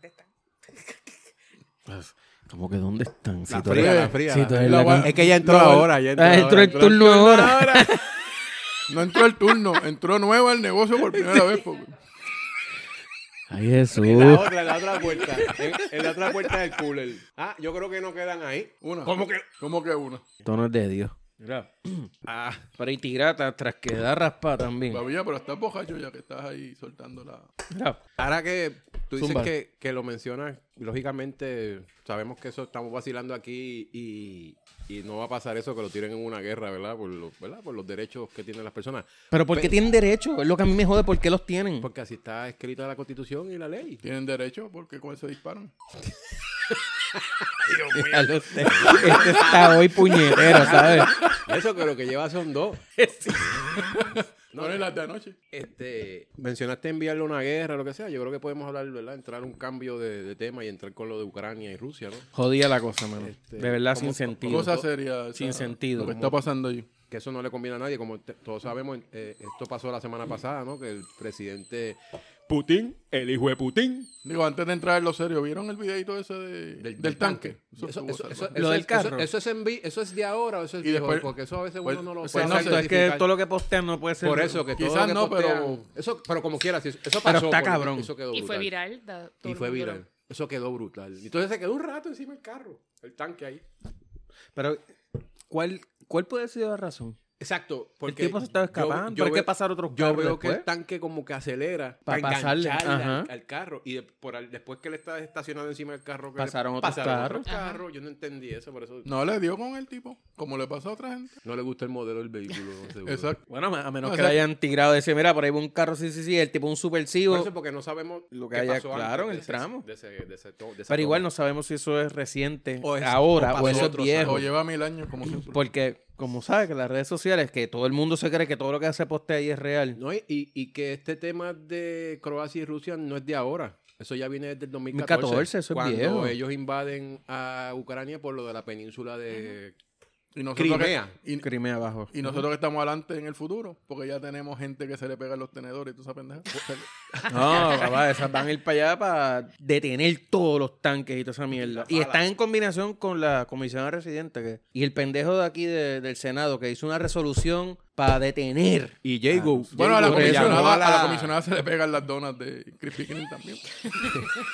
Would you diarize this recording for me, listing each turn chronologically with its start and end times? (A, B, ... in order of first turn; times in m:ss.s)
0:01.9-0:05.2 A
0:03.5-0:08.0 B
0:03.7-0:05.9 C
0:06.2-0:08.0 A
0:08.9-0:12.0 C
0:11.1-0:11.6 B
0:13.5-0:15.9 A
0:14.0-0:19.5 B
0:18.8-0:20.2 C
0:20.4-0:22.1 A
0:22.2-0:22.7 B
0:22.8-0:25.0 A
0:24.9-0:27.5 C
0:27.7-0:28.0 A
0:28.2-0:39.8 B
0:29.2-0:29.5 A
0:39.3-0:41.9 A
0:41.8-0:44.0 B
0:44.0-0:45.7 C
0:46.7-0:53.7 B
0:47.9-0:51.2 A
0:53.0-0:54.0 A
0:53.8-0:55.4 C
0:54.5-0:54.8 B
0:55.5-1:02.3 B
1:02.3-1:06.2 A
1:03.2-1:04.8 B
1:04.5-1:06.9 C
1:06.0-1:06.3 B
1:07.1-1:14.1 B
1:14.2-1:18.6 C
1:16.8-1:23.3 B
1:18.5-1:19.3 A
1:20.8-1:21.3 C
1:21.8-1:22.8 C
1:22.3-1:24.6 A
1:24.2-1:28.7 B
1:24.7-1:25.8 C
1:27.2-1:28.1 A
1:28.3-1:30.0 D
1:29.4-1:33.6 B
1:34.6-1:34.8 A
1:35.5-1:37.2 A
1:37.4-1:49.1 B
1:38.1-1:40.6 A
1:42.1-1:43.3 A
1:46.4-1:47.5 A
1:47.4-1:47.8 D
1:49.0-1:51.4 C
1:51.4-1:53.3 B
1:53.1-1:53.4 C
1:53.5-1:57.5 A
1:54.0-1:54.4 C
1:57.3-2:01.3 B
1:58.3-1:59.8 A
2:00.9-2:04.5 A
2:02.8-2:04.5 B
2:03.5-2:05.6 C
2:05.4-2:10.0 A
2:10.0-2:19.8 B
2:14.9-2:16.4 A
2:20.4-2:21.5 C
2:20.6-2:21.1 B
2:21.4-2:22.1 A
2:22.1-2:27.9 C
2:27.3-2:40.7 A
2:31.5-2:32.3 B
2:39.0-2:41.4 B
2:39.7-2:43.6 C